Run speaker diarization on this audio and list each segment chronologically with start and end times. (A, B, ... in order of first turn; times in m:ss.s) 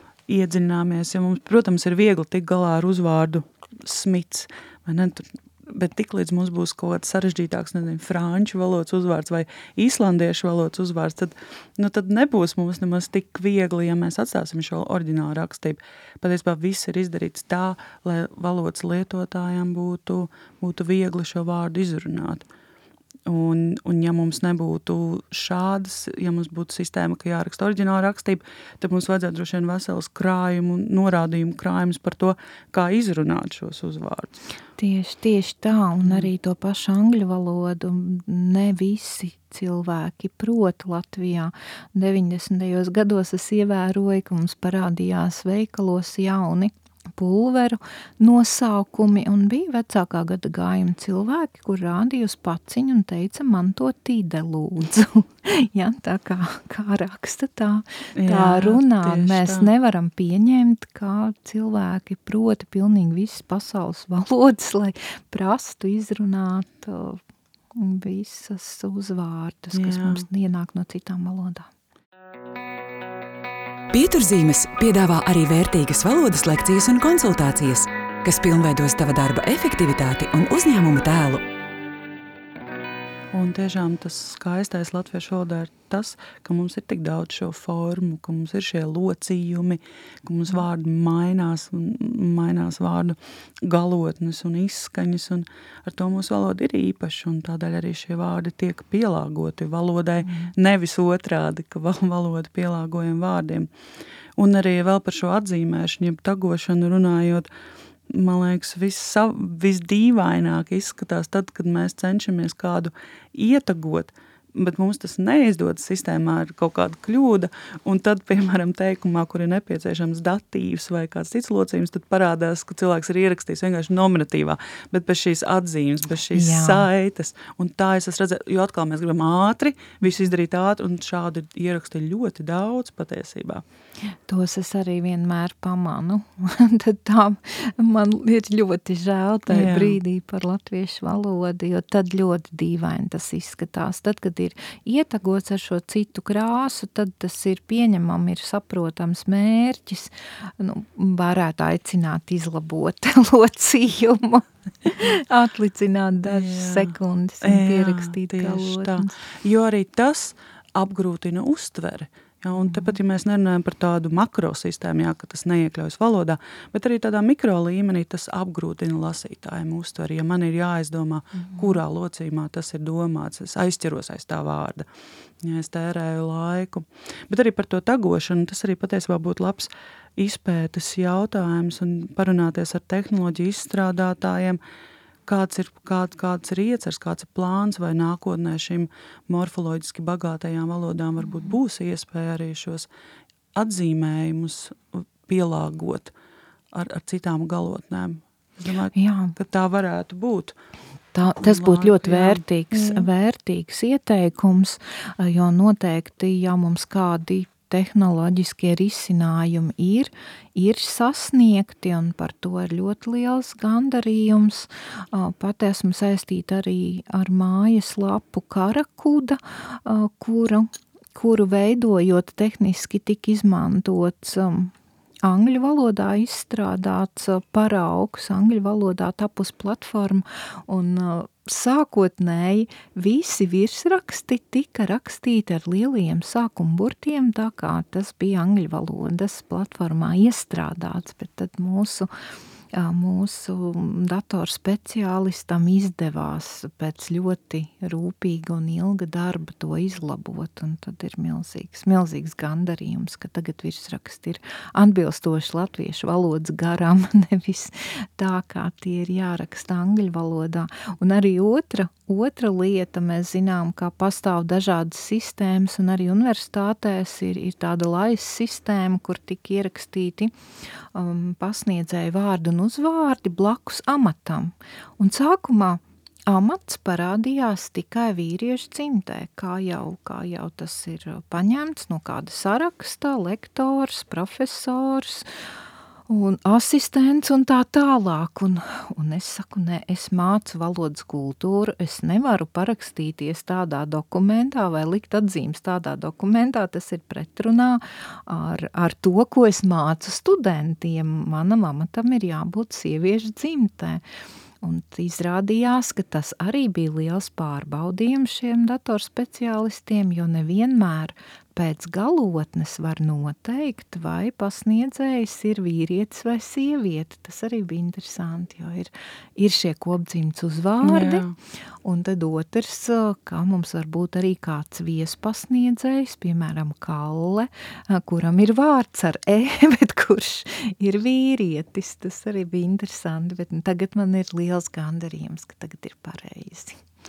0:00.3-0:22.5 A
0:23.3-0:34.4 A
0:34.8-1:07.2 B
0:58.2-0:59.7 A
1:07.8-1:11.7 B
1:09.7-1:10.2 A
1:13.9-1:21.4 C
1:23.3-1:43.7 A
1:40.3-1:40.5 B
1:44.4-1:47.5 A
1:48.1-2:13.6 A
2:06.3-2:06.9 B
2:14.3-2:39.1 B
2:19.5-2:20.0 A
2:36.3-2:54.9 A
2:55.4-3:04.6 A
3:05.3-3:12.9 A
3:13.6-3:16.1 A
3:16.7-3:20.6 A
3:19.0-3:19.4 B
3:21.1-3:44.7 B
3:21.4-3:23.1 A
3:45.2-4:02.1 B
4:02.7-4:30.3 B
4:30.9-4:45.3 B
4:46.1-5:04.0 B
5:04.6-5:21.3 B
5:20.8-5:21.4 A
5:21.8-5:36.8 B